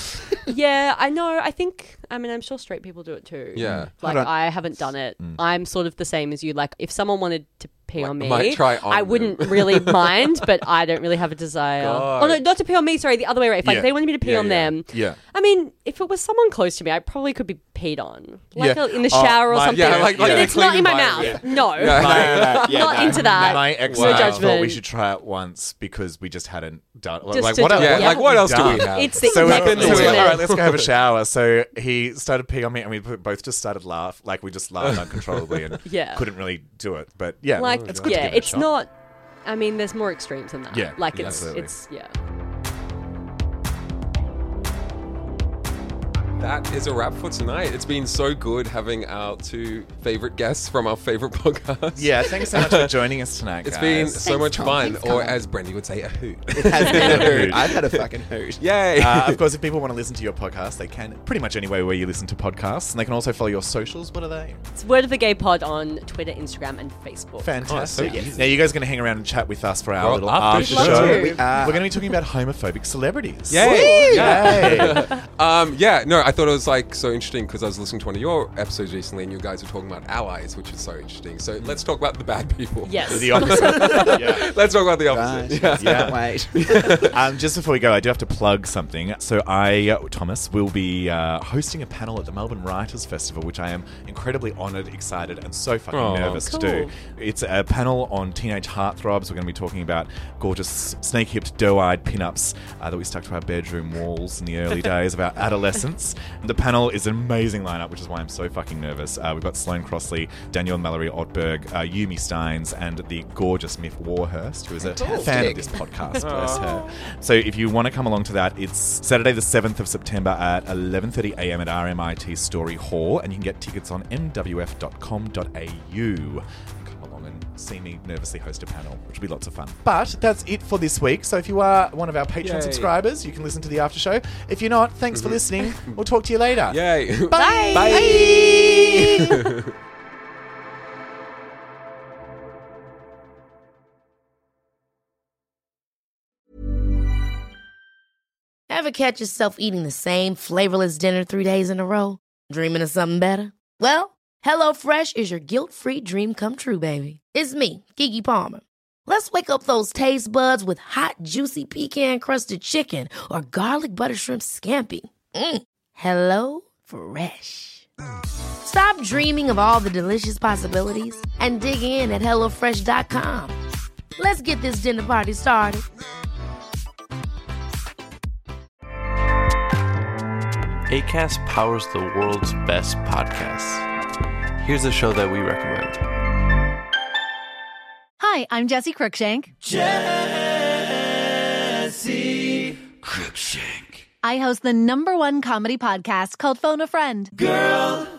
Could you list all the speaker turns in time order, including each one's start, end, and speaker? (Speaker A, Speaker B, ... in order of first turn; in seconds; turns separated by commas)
Speaker A: 0.5-24.8, Speaker B: 3.5-3.9, Speaker C: 3.6-3.9, Speaker D: 4.0-4.3, Speaker C: 5.2-5.4, Speaker B: 8.0-10.4, Speaker B: 11.8-12.4, Speaker C: 13.6-13.9, Speaker B: 14.2-14.8, Speaker C: 14.9-15.2, Speaker C: 18.6-20.9, Speaker B: 19.7-24.5, Speaker D: 21.2-23.6, Speaker C: 21.8-38.8, Speaker A: 27.3-30.4, Speaker B: 27.7-30.9, Speaker B: 34.9-35.6, Speaker A: 35.8-36.3, Speaker A: 37.6-38.9, Speaker B: 37.7-38.2, Speaker A: 39.5-42.1, Speaker C: 40.7-41.8, Speaker B: 41.1-41.5, Speaker B: 46.4-53.0, Speaker C: 52.0-54.2, Speaker B: 53.6-58.0, Speaker D: 54.1-55.4, Speaker D: 56.5-58.6, Speaker A: 56.8-57.2, Speaker C: 56.9-57.7, Speaker B: 58.6-59.4, Speaker C: 59.0-64.6, Speaker A: 64.8-68.1, Speaker C: 67.4-75.2, Speaker B: 67.7-68.5, Speaker D: 68.0-68.4, Speaker B: 70.0-71.5, Speaker A: 70.5-71.7, Speaker D: 70.7-72.0, Speaker B: 73.5-87.2, Speaker D: 73.6-74.8, Speaker A: 73.6-75.2, Speaker A: 82.8-84.2, Speaker C: 83.1-84.5, Speaker D: 85.1-87.1, Speaker C: 85.7-86.3, Speaker C: 87.1-138.8, Speaker B: 95.9-96.5, Speaker A: 96.4-96.9, Speaker D: 114.8-115.8, Speaker A: 115.0-116.9, Speaker B: 116.2-116.7, Speaker B: 132.4-132.9, Speaker B: 135.1-136.1, Speaker B: 136.7-139.7, Speaker E: 137.3-138.3, Speaker F: 148.7-167.9, Speaker F: 168.6-173.6, Speaker F: 174.2-175.8, Speaker G: 180.9-183.9, Speaker G: 184.6-186.0, Speaker E: 188.2-189.5, Speaker E: 194.2-197.6